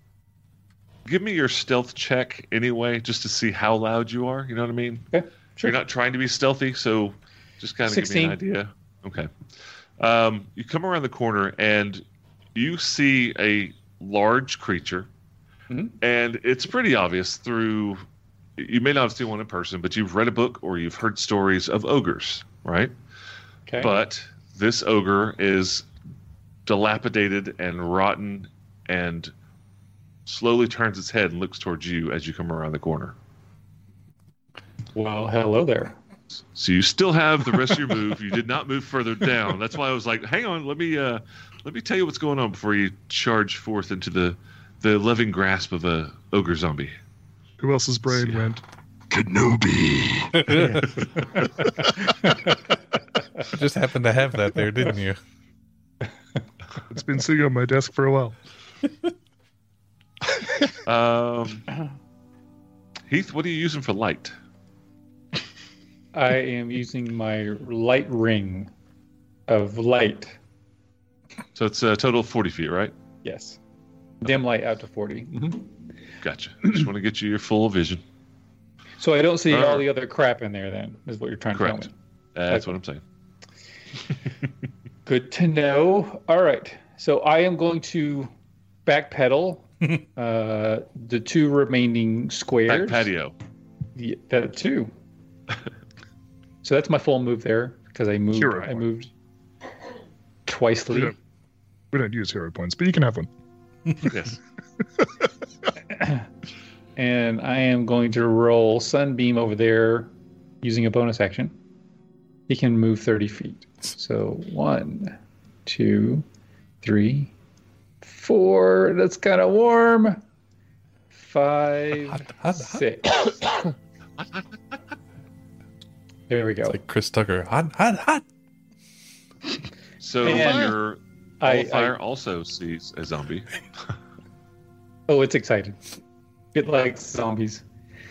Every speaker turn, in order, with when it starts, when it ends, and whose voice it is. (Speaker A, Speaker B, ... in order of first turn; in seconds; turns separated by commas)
Speaker A: 1.1-5.1, Speaker B: 5.1-5.8, Speaker A: 5.6-9.3, Speaker B: 7.8-8.4, Speaker A: 10.0-12.0, Speaker A: 12.6-15.1, Speaker B: 15.7-16.0, Speaker A: 16.0-18.0, Speaker A: 18.6-22.9, Speaker B: 23.7-24.0, Speaker A: 23.8-25.9, Speaker A: 26.7-29.3, Speaker A: 30.3-33.1, Speaker B: 34.9-36.0, Speaker A: 36.3-47.0, Speaker C: 47.6-48.6, Speaker A: 48.1-48.5, Speaker A: 49.1-50.9, Speaker D: 50.3-51.1, Speaker D: 53.5-55.2, Speaker C: 56.9-58.4, Speaker A: 60.8-61.7, Speaker A: 63.1-64.3, Speaker B: 66.1-68.7, Speaker B: 69.5-70.4, Speaker A: 71.5-72.9, Speaker B: 73.2-73.6, Speaker B: 74.2-75.7, Speaker A: 76.2-78.0, Speaker B: 79.0-81.9, Speaker A: 79.5-79.9, Speaker A: 81.5-83.0, Speaker B: 82.5-82.8, Speaker B: 85.1-88.3, Speaker B: 88.9-93.1, Speaker A: 92.7-93.3, Speaker B: 94.0-94.9, Speaker B: 96.6-99.1, Speaker C: 98.3-98.8, Speaker B: 100.5-101.2, Speaker C: 101.9-103.3, Speaker A: 104.0-104.4, Speaker B: 105.9-106.3, Speaker B: 107.0-111.6, Speaker B: 112.5-116.2, Speaker B: 116.8-117.3, Speaker B: 118.0-120.2, Speaker B: 121.1-123.4, Speaker D: 122.1-122.8, Speaker A: 124.2-124.8, Speaker B: 126.3-126.8, Speaker D: 126.7-128.3, Speaker A: 130.0-133.5, Speaker B: 130.2-130.7, Speaker C: 130.2-130.8, Speaker B: 131.4-132.0, Speaker B: 135.1-135.8, Speaker B: 136.5-137.7